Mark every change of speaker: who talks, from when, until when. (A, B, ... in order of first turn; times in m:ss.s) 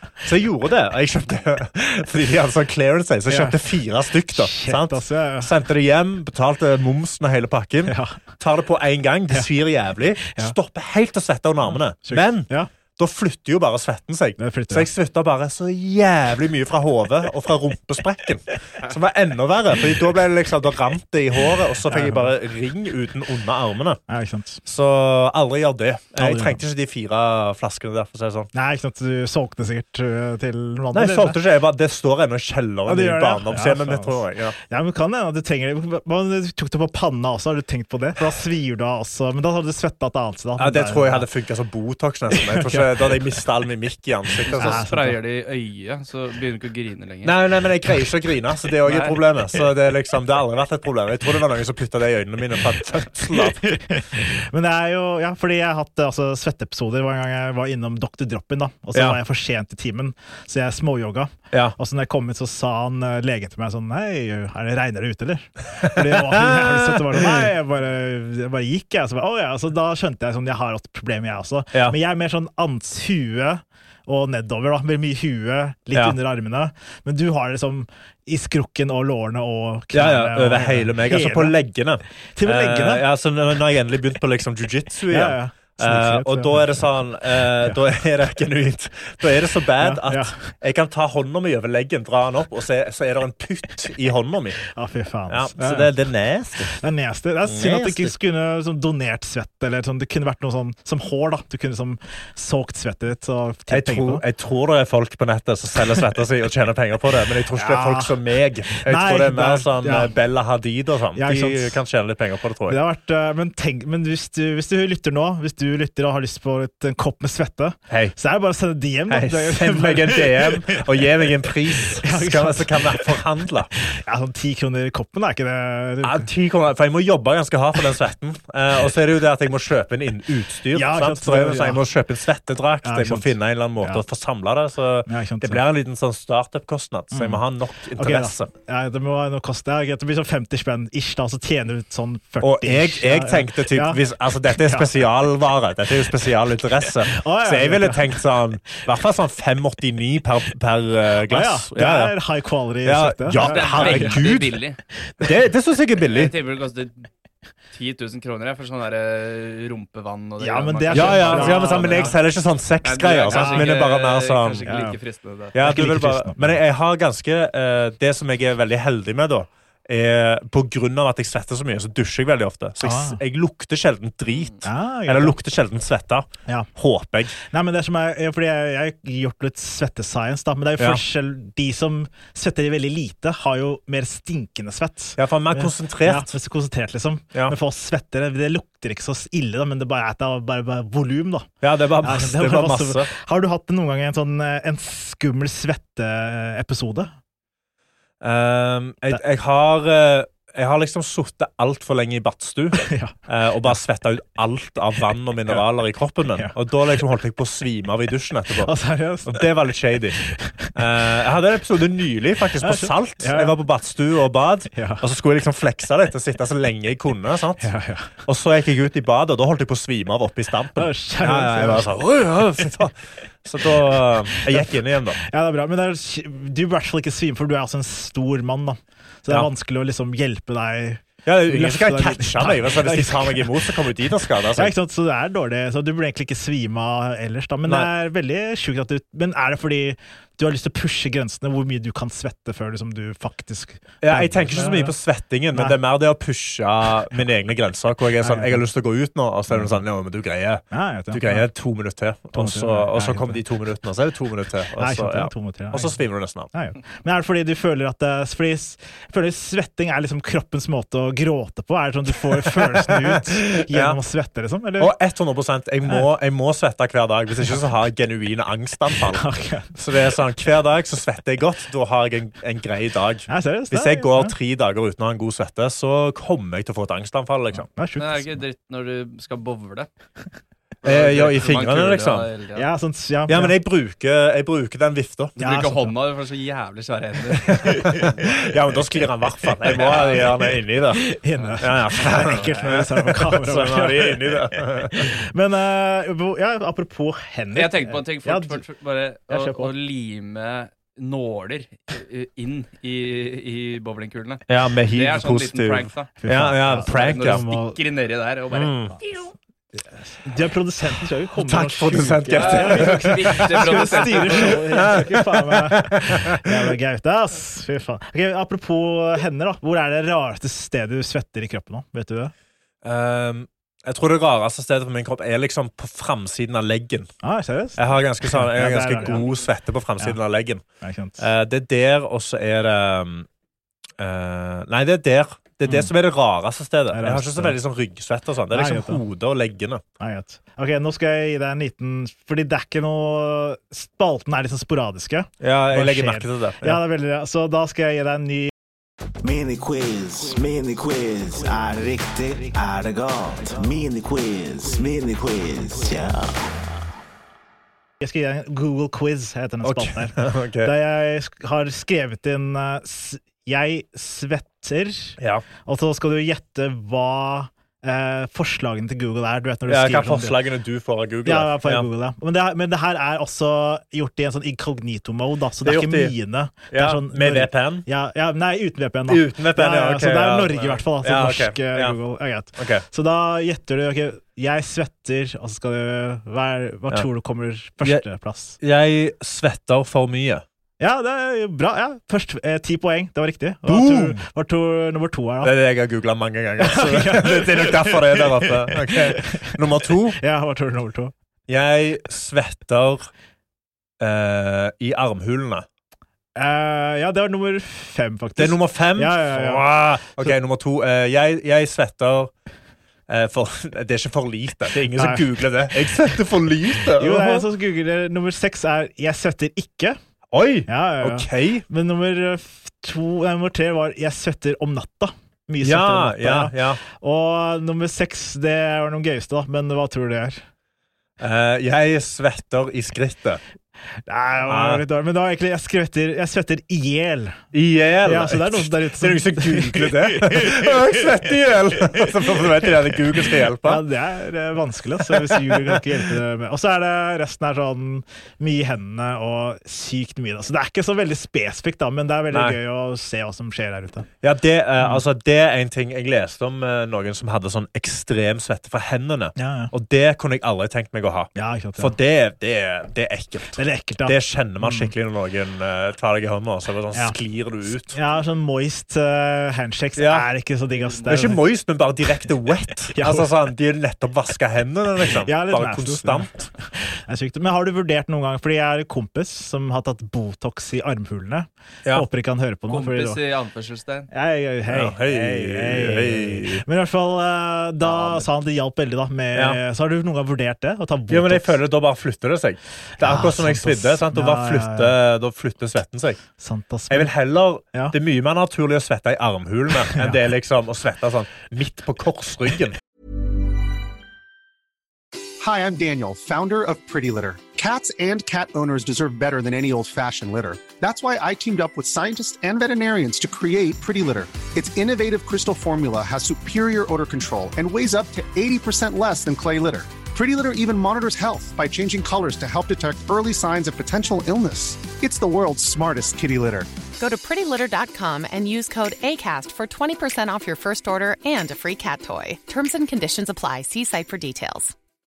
0:00.2-0:24.0 A
0:03.3-0:03.6 B
0:04.3-0:05.5 B
0:07.8-0:08.2 B
0:10.2-0:10.6 B
0:12.0-0:12.7 B
0:14.4-0:14.9 B
0:21.9-0:22.3 B
0:24.1-0:24.6 B
0:24.6-0:28.5 A
0:26.2-0:26.6 B
0:28.5-0:31.4 B
0:30.9-0:34.6 A
0:32.9-0:41.3 B
0:40.6-0:44.8 A
0:42.3-0:43.2 B
0:44.5-0:45.2 B
0:44.5-0:47.3 C
0:47.2-0:53.6 A
0:48.8-0:49.2 C
0:53.9-1:21.6 B
1:01.5-1:01.8 A
1:05.8-1:07.5 A
1:19.9-1:34.6 A
1:22.3-1:23.0 B
1:25.1-1:26.9 B
1:29.8-1:30.4 B
1:34.7-1:35.9 B
1:35.3-1:36.8 A
1:36.8-1:44.2 B
1:37.4-1:38.1 A
1:43.7-1:52.8 A
1:47.5-1:48.2 B
1:48.7-1:50.1 B
1:51.1-1:51.8 B
1:52.7-2:01.3 B
1:57.9-1:58.1 A
1:59.1-2:03.7 A
2:01.8-2:03.2 B
2:03.8-2:06.3 B
2:06.0-2:18.5 A
2:10.7-2:11.8 B
2:12.8-2:14.0 B
2:15.1-2:15.6 B
2:17.1-2:17.4 B
2:18.0-2:24.0 B
2:22.4-2:32.2 A
2:24.6-2:24.9 B
2:27.1-2:28.2 B
2:31.3-2:34.2 B
2:32.8-2:34.6 A
2:33.4-2:34.8 C
2:35.2-2:36.3 A
2:36.0-2:37.1 C
2:37.7-2:42.2 C
2:40.4-2:42.1 B
2:40.9-2:44.7 A
2:42.8-2:45.5 C
2:43.3-2:43.7 B
2:44.6-2:45.0 B
2:45.5-2:57.3 A
2:45.6-2:46.6 B
2:52.8-2:53.2 B
2:54.3-2:54.6 C
2:54.6-2:55.4 B
2:57.4-3:11.5 B
3:05.2-3:06.3 A
3:11.6-3:13.1 A
3:12.0-3:17.1 B
3:18.2-3:28.7 A
3:22.8-3:23.1 B
3:28.6-3:29.4 B
3:29.2-3:30.2 A
3:30.2-3:30.7 B
3:30.7-3:37.7 A
3:32.6-3:33.6 B
3:34.7-3:35.0 B
3:37.6-3:38.2 B
3:38.2-3:45.2 A
3:40.8-3:41.9 B
3:45.2-3:53.7 B
3:51.2-3:54.7 A
3:54.5-4:05.0 B
4:04.0-4:16.5 A
4:08.2-4:08.6 B
4:10.7-4:11.5 B
4:12.3-4:13.4 B
4:14.8-4:16.0 B
4:16.5-4:24.9 B
4:22.8-4:24.0 A
4:24.8-4:37.7 A
4:29.1-4:29.7 B
4:33.3-4:34.3 B
4:37.7-4:38.4 B
4:38.0-4:39.9 C
4:40.8-4:42.7 C
4:40.8-4:42.3 A
4:42.5-4:43.5 B
4:43.3-4:45.4 A
4:45.4-4:48.2 C
4:45.4-4:45.9 B
4:47.6-4:51.0 A
4:49.8-4:50.2 C
4:51.0-4:58.6 B
4:51.6-4:55.1 A
4:57.5-5:06.1 C
4:59.3-4:59.7 B
5:04.5-5:07.4 A
5:06.2-5:07.8 B
5:06.8-5:09.0 C
5:08.5-5:09.0 A
5:10.2-5:22.3 B
5:11.3-5:16.7 A
5:12.3-5:14.8 C
5:22.8-5:27.1 A
5:27.2-5:29.2 B
5:27.8-5:30.6 A
5:30.8-5:31.2 B
5:31.2-5:33.3 A
5:34.0-5:39.8 A
5:35.6-5:35.9 B
5:36.9-5:37.6 B
5:38.5-5:39.0 B
5:40.0-5:48.5 B
5:45.4-5:46.8 A
5:49.2-5:56.5 D
5:58.0-6:10.4 B
5:59.6-6:00.7 A
6:05.2-6:05.4 A
6:09.7-6:11.8 A
6:11.2-6:28.6 B
6:15.6-6:16.1 A
6:16.7-6:17.8 A
6:19.1-6:22.0 A
6:22.6-6:22.8 A
6:28.6-6:30.4 A
6:30.8-6:35.5 B
6:33.6-6:34.2 A
6:35.4-6:40.2 A
6:36.6-6:39.5 B
6:40.2-6:41.1 B
6:41.5-6:43.1 A
6:44.0-6:45.6 A
6:46.4-6:50.3 B
6:48.4-6:52.3 A
6:53.1-6:57.4 A
6:54.9-6:55.3 B
6:57.0-7:00.0 B
7:00.3-7:01.6 A
7:00.7-7:10.4 B
7:05.6-7:06.8 A
7:11.2-7:13.4 A
7:14.1-7:17.4 B
7:14.5-7:14.8 A
7:17.5-7:23.8 A
7:18.0-7:20.6 B
7:23.6-7:34.1 B
7:25.1-7:25.8 A
7:32.3-7:32.6 A
7:34.2-7:48.0 A
7:39.4-7:39.7 B
7:41.3-7:41.9 B
7:43.6-7:44.9 B
7:47.9-7:51.4 B
7:50.0-7:50.2 A
7:50.8-7:51.3 C
7:51.0-7:56.5 A
7:52.9-7:53.3 B
7:55.2-8:03.2 B
8:02.7-8:04.1 C
8:04.1-8:11.6 B
8:04.7-8:06.6 A
8:07.9-8:08.2 A
8:09.3-8:09.6 A
8:11.1-8:16.2 A
8:13.0-8:15.0 B
8:16.4-8:17.1 B
8:16.9-8:22.8 A
8:19.9-8:20.2 B
8:25.4-8:46.7 E
8:47.0-8:54.7 F